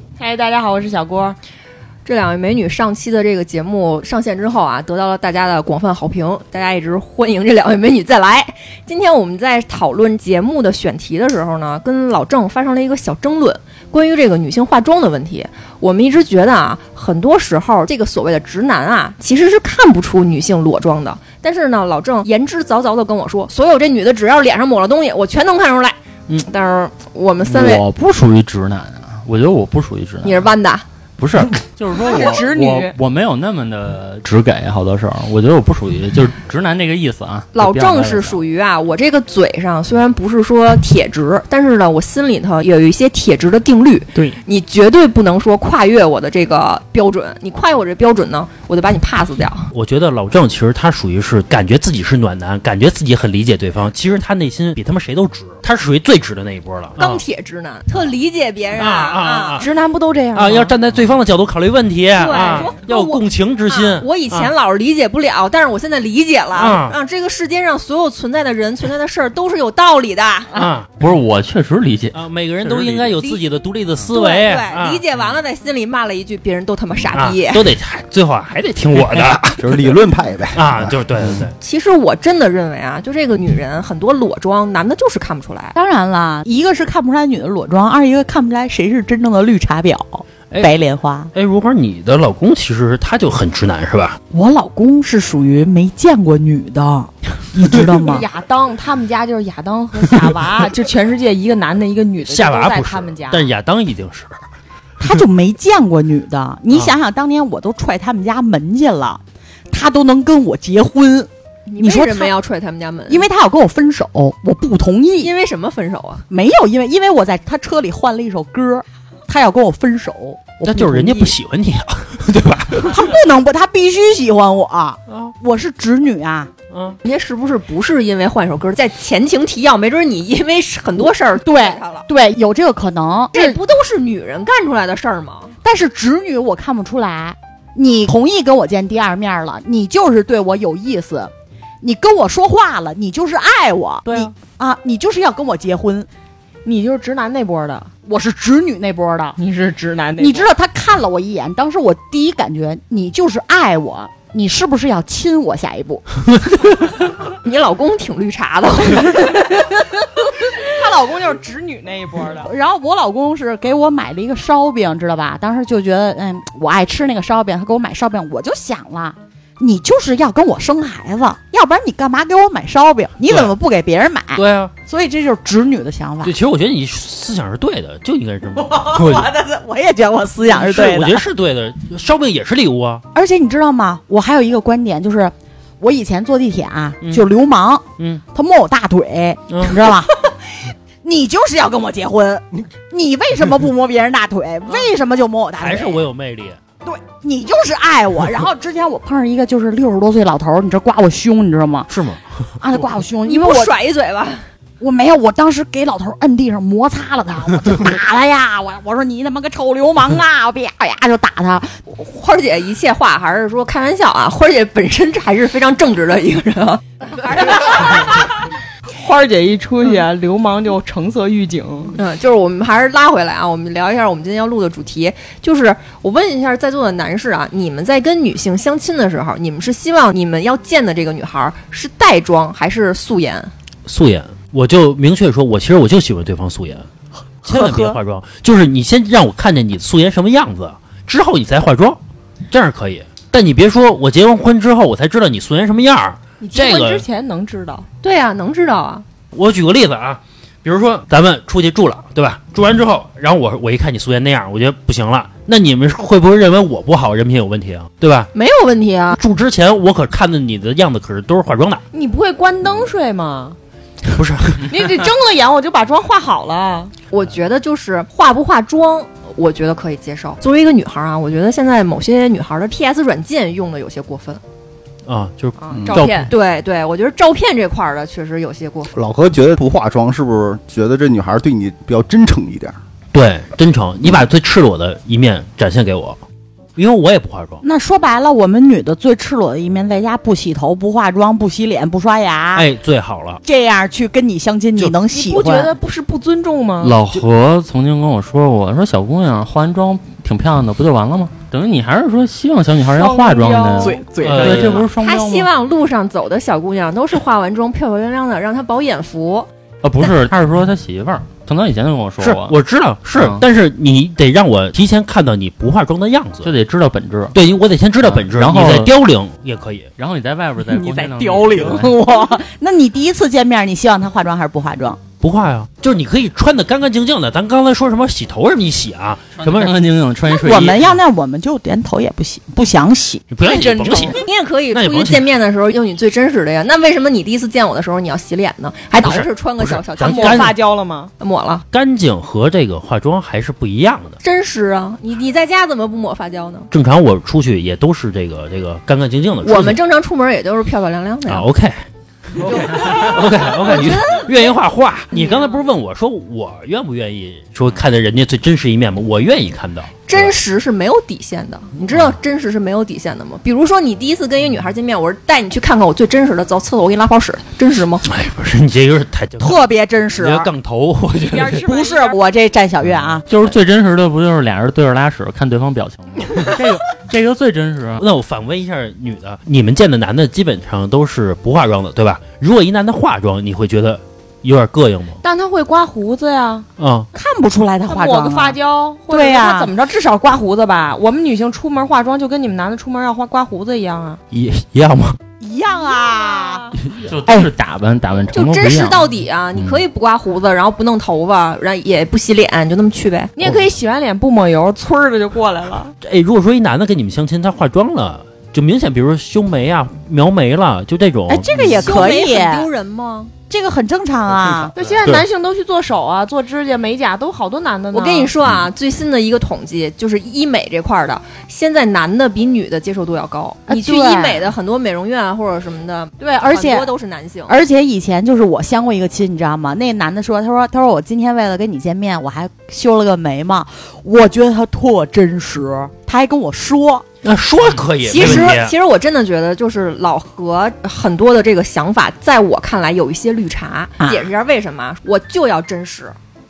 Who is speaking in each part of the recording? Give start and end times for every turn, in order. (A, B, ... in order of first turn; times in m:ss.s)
0:00.2-0:01.4 A
0:02.0-0:27.8 B
0:27.4-0:30.5 C
0:30.2-0:30.8 B
0:31.2-0:38.4 C
0:31.9-0:32.9 A
0:37.6-0:49.7 B
0:49.7-0:57.2 D
0:57.0-0:59.6 B
0:58.7-0:59.6 D
0:59.6-1:00.7 A
1:00.3-1:04.5 D
1:02.2-1:10.5 B
1:06.6-1:07.0 D
1:10.5-1:10.9 D
1:11.0-1:12.2 C
1:12.1-1:15.0 D
1:12.9-1:13.4 B
1:14.1-1:17.7 B
1:17.1-1:20.0 D
1:19.6-1:21.0 E
1:20.5-1:21.6 D
1:21.6-1:25.7 B
1:25.7-1:31.3 F
1:31.3-1:34.2 D
1:34.3-1:38.2 F
1:38.0-1:43.5 A
1:42.2-1:44.4 D
1:45.0-1:52.4 F
1:51.7-1:53.3 B
1:53.1-1:55.3 F
1:55.2-1:56.2 B
1:56.3-2:01.4 F
2:00.6-2:03.0 D
2:02.8-2:06.5 F
2:06.7-2:07.0 D
2:07.0-2:12.0 B
2:11.0-2:13.6 F
2:13.3-2:15.6 B
2:15.6-2:26.1 F
2:26.6-2:27.9 A
2:28.1-2:29.4 F
2:29.4-2:30.5 A
2:30.2-2:36.1 F
2:37.3-2:39.8 B
2:40.6-2:42.5 A
2:42.4-2:56.4 F
2:54.4-2:54.7 D
2:56.2-2:59.3 D
2:58.6-3:01.3 F
3:00.4-3:03.0 D
3:03.1-3:10.3 F
3:09.5-3:09.8 D
3:11.0-3:16.0 F
3:15.6-3:16.6 D
3:16.8-3:21.9 F
3:21.9-3:22.2 D
3:22.6-3:23.8 F
3:23.2-3:24.4 B
3:24.8-3:31.8 F
3:31.9-3:38.4 B
3:37.4-3:37.9 A
3:38.9-3:42.0 A
3:42.0-3:53.5 B
3:53.9-3:56.9 D
3:57.4-4:07.0 D
3:57.5-3:58.0 F
4:06.4-4:07.9 A
4:08.0-4:09.1 B
4:09.3-4:18.3 D
4:18.3-4:19.2 B
4:19.2-4:21.8 D
4:21.9-4:23.6 A
4:24.1-4:25.0 D
4:24.7-4:26.9 A
4:27.1-4:34.4 B
4:35.1-4:36.3 D
4:35.6-4:36.3 A
4:35.9-4:38.9 B
4:39.0-4:42.8 E
4:43.1-4:46.2 D
4:46.8-4:47.6 D
4:47.6-4:52.7 F
4:52.6-4:53.4 D
4:53.4-4:55.7 F
4:55.1-4:57.0 A
4:56.8-5:05.5 C
5:03.0-5:04.8 A
5:04.2-5:04.9 D
5:05.0-5:09.5 B
5:09.8-5:12.6 C
5:12.2-5:16.5 D
5:13.2-5:13.4 C
5:16.4-5:17.4 C
5:17.3-5:19.9 D
5:18.0-5:18.9 C
5:20.0-5:22.0 C
5:20.6-5:25.0 F
5:25.2-5:29.8 D
5:29.4-5:30.9 C
5:30.3-5:33.2 F
5:33.3-5:35.3 D
5:33.4-5:34.2 A
5:34.1-5:40.6 B
5:39.0-5:40.5 D
5:40.0-5:41.1 A
5:41.2-5:41.6 B
5:41.7-5:44.2 D
5:44.2-5:46.7 B
5:46.7-5:49.8 D
5:49.4-5:51.5 B
5:51.3-5:51.8 D
5:52.4-6:00.4 D
5:52.4-5:54.5 B
5:55.1-5:55.6 B
6:00.1-6:08.0 B
6:01.9-6:02.2 D
6:08.0-6:09.6 D
6:09.4-6:10.5 F
6:10.2-6:11.7 D
6:11.3-6:12.2 A
6:11.6-6:13.2 F
6:13.3-6:18.0 C
6:18.0-6:25.2 D
6:25.2-6:26.7 A
6:26.8-6:27.1 D
6:27.1-6:28.6 F
6:27.9-6:34.2 A
6:29.1-6:29.7 F
6:34.3-6:35.2 D
6:35.4-6:36.7 F
6:35.9-6:36.7 A
6:36.8-6:37.5 D
6:37.0-6:39.1 C
6:38.3-6:43.4 B
6:39.6-6:39.8 D
6:43.4-6:45.9 A
6:46.0-6:52.1 D
6:51.3-6:52.7 F
6:51.7-6:53.3 B
6:53.5-6:54.7 F
6:54.5-6:55.2 D
6:54.8-6:58.3 A
6:57.9-7:07.6 B
7:03.7-7:04.5 F
7:06.2-7:06.9 F
7:07.5-7:17.1 F
7:17.2-7:18.7 D
7:18.0-7:26.2 B
7:18.1-7:18.6 F
7:24.0-7:24.3 F